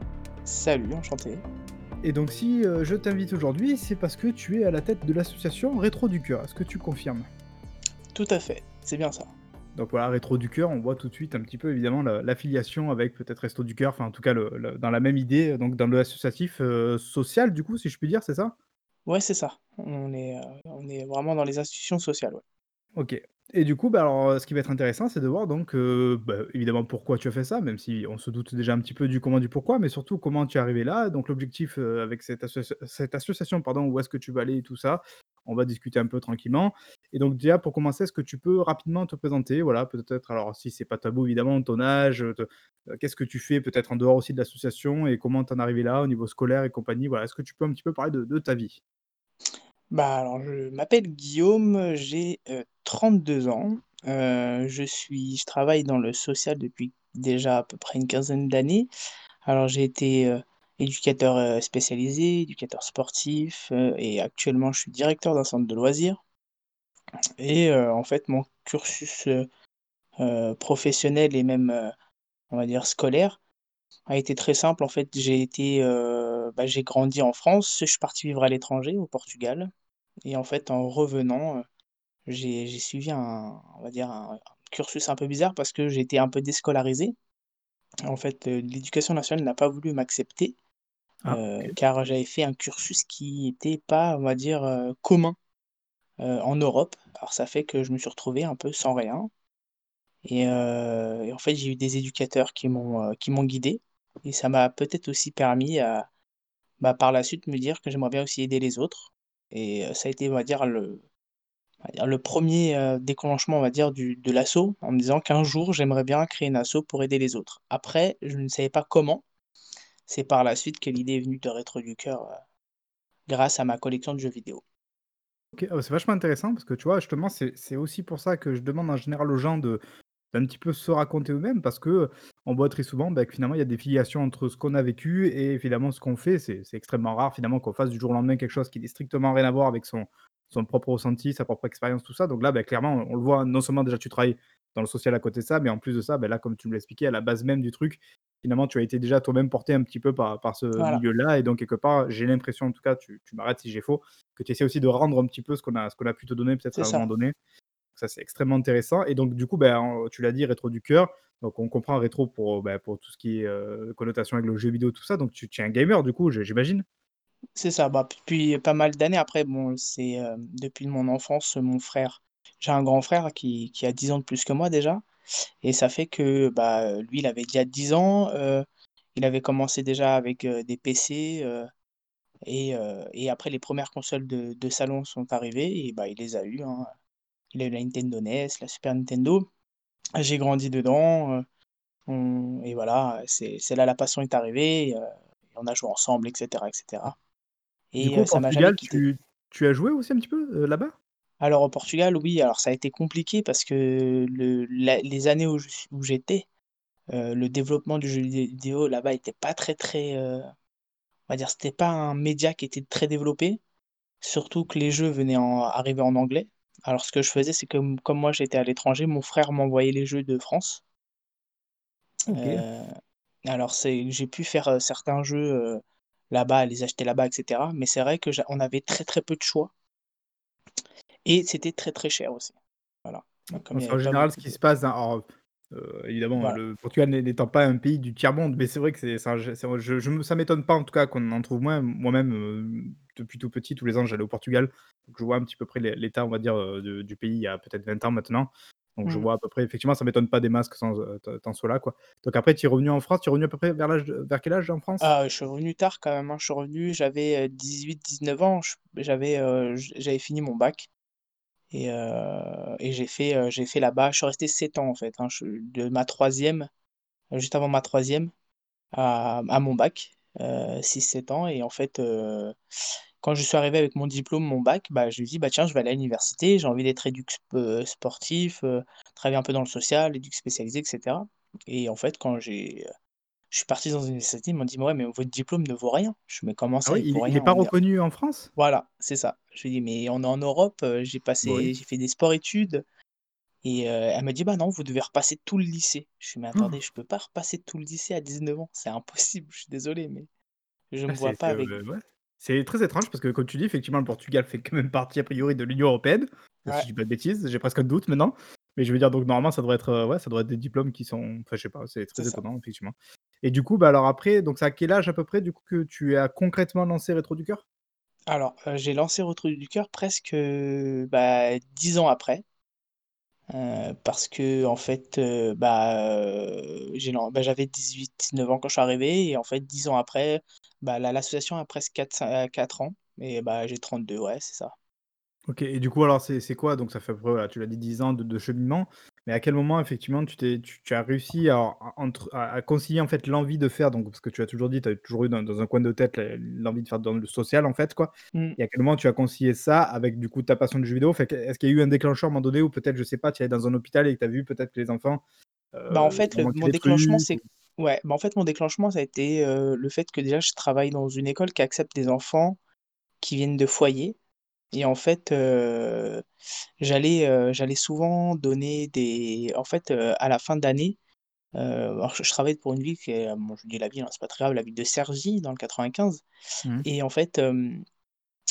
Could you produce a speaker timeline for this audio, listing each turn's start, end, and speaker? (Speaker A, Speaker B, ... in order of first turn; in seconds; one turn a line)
Speaker A: 0.4-1.4
Speaker B: 2.0-7.3
Speaker A: 8.1-9.3
Speaker B: 9.8-18.5
Speaker A: 19.1-22.4
Speaker B: 22.9-48.8
Speaker A: 49.9-58.9
Speaker A: 59.4-66.2
Speaker A: 67.4-69.5
Speaker A: 70.2-71.9
Speaker A: 72.5-73.4
Speaker A: 74.1-79.7
Speaker A: 80.2-81.6
Speaker A: 82.2-87.1
Speaker A: 88.1-90.6
Speaker B: 91.2-91.7
Speaker A: 91.3-95.4
Speaker A: 96.2-99.3
Speaker A: 100.2-106.1
Speaker A: 106.8-111.0
Speaker A: 111.9-119.2
Speaker A: 120.1-122.3
Speaker A: 123.3-124.6
Speaker B: 125.5-129.8
Speaker B: 130.3-157.3
Speaker A: 150.8-151.0
Speaker A: 156.7-157.1
Speaker B: 158.0-166.8
Speaker A: 167.6-175.0
Speaker A: 175.6-181.7
Speaker A: 182.4-186.9
Speaker A: 187.5-189.4
Speaker A: 190.2-191.4
Speaker A: 192.1-197.2
Speaker A: 197.9-199.0
Speaker B: 198.0-200.9
Speaker A: 201.4-206.4
Speaker A: 207.1-210.5
Speaker A: 211.3-213.6
Speaker A: 214.2-220.8
Speaker A: 222.3-222.9
Speaker B: 222.3-222.6
Speaker A: 223.4-229.7
Speaker A: 231.2-232.5
Speaker A: 233.1-234.6
Speaker B: 233.7-255.1
Speaker A: 255.0-260.9
Speaker A: 261.7-266.7
Speaker A: 267.3-268.3
Speaker A: 268.9-272.5
Speaker A: 273.2-282.9
Speaker A: 283.5-287.7
Speaker B: 286.9-288.5
Speaker A: 288.6-292.8
Speaker B: 291.4-291.7
Speaker A: 293.6-300.3
Speaker A: 300.9-301.8
Speaker B: 301.1-317.6
Speaker A: 312.1-312.4
Speaker A: 318.3-322.4
Speaker A: 323.5-334.7
Speaker B: 335.5-355.2
Speaker A: 348.3-348.6
Speaker B: 355.7-357.4
Speaker A: 355.9-362.6
Speaker A: 363.2-364.2
Speaker A: 364.7-366.2
Speaker A: 366.8-371.0
Speaker A: 371.5-376.2
Speaker A: 376.8-377.8